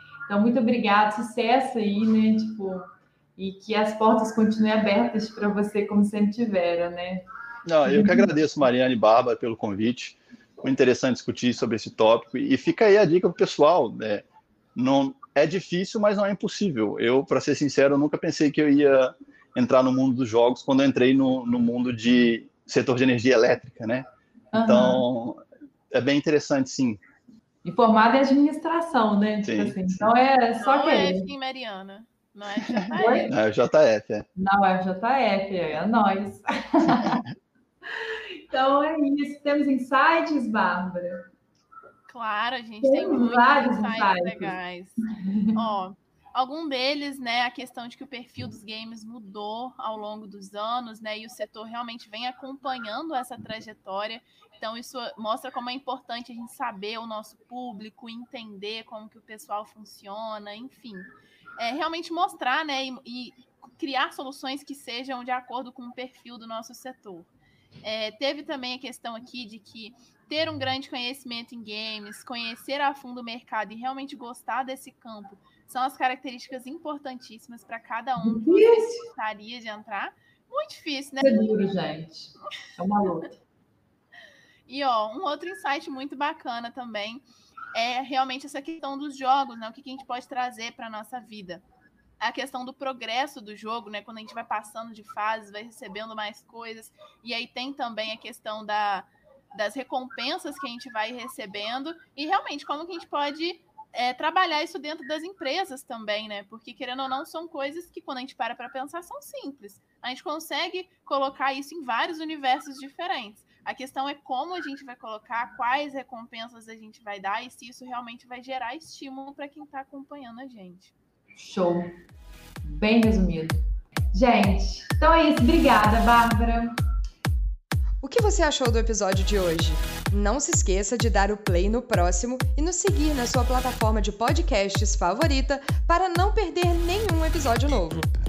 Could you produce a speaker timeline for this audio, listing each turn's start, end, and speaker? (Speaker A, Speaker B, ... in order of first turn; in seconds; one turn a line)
Speaker A: 0.3-7.2
Speaker B: 7.7-24.1
Speaker A: 7.8-8.3
Speaker A: 24.5-25.0
Speaker B: 24.6-27.0
Speaker A: 27.6-31.3
Speaker B: 29.4-30.1
Speaker C: 30.6-33.4
Speaker B: 32.6-34.2
Speaker A: 32.9-33.3
Speaker A: 34.4-37.2
Speaker A: 38.0-41.2
Speaker C: 42.1-67.3
Speaker A: 42.8-44.5
Speaker A: 45.1-45.5
Speaker C: 67.8-81.6
Speaker A: 78.2-79.0
Speaker A: 81.2-83.4
Speaker C: 84.7-91.6
Speaker C: 92.2-120.9
Speaker A: 121.3-121.9
Speaker A: 122.6-123.6
Speaker A: 124.1-126.7
Speaker D: 128.0-138.1